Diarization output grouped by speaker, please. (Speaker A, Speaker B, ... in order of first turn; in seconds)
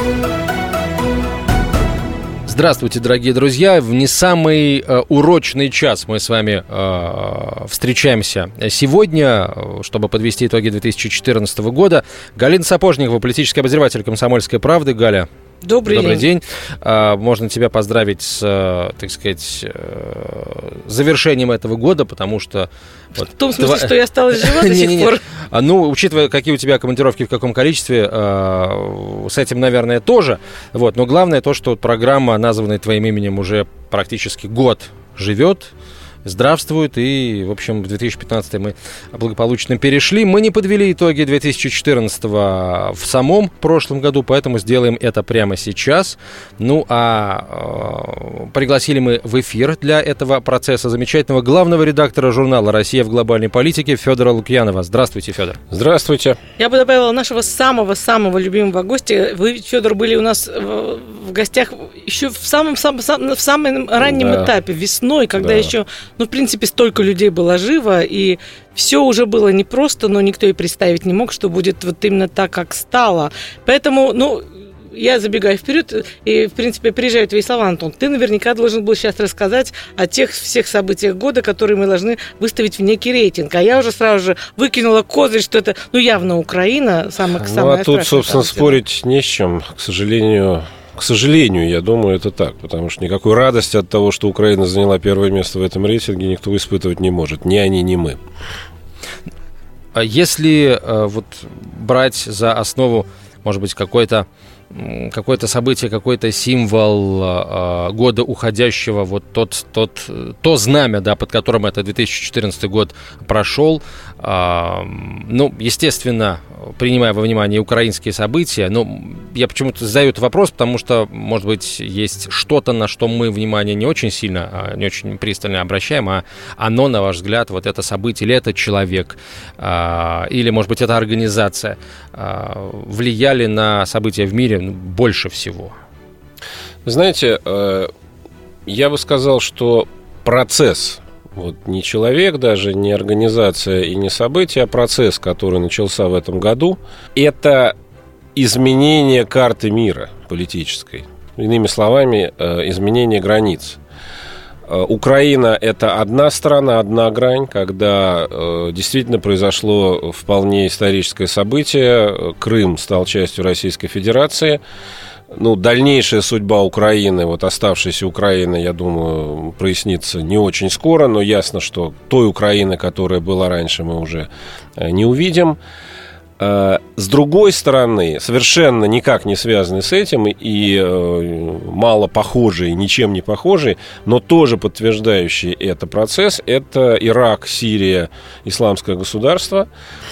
Speaker A: 2.5-15.3, 15.9-35.7, 36.2-55.6, 100.0-135.8
Speaker B: 15.6-16.2, 23.4-25.2, 56.6-88.8
Speaker C: 55.7-56.4, 64.0-64.5, 65.4-65.7, 87.3-98.2, 136.8-137.9, 138.7-147.7, 148.3-153.8, 154.7-164.6, 165.3-175.6, 176.4-189.7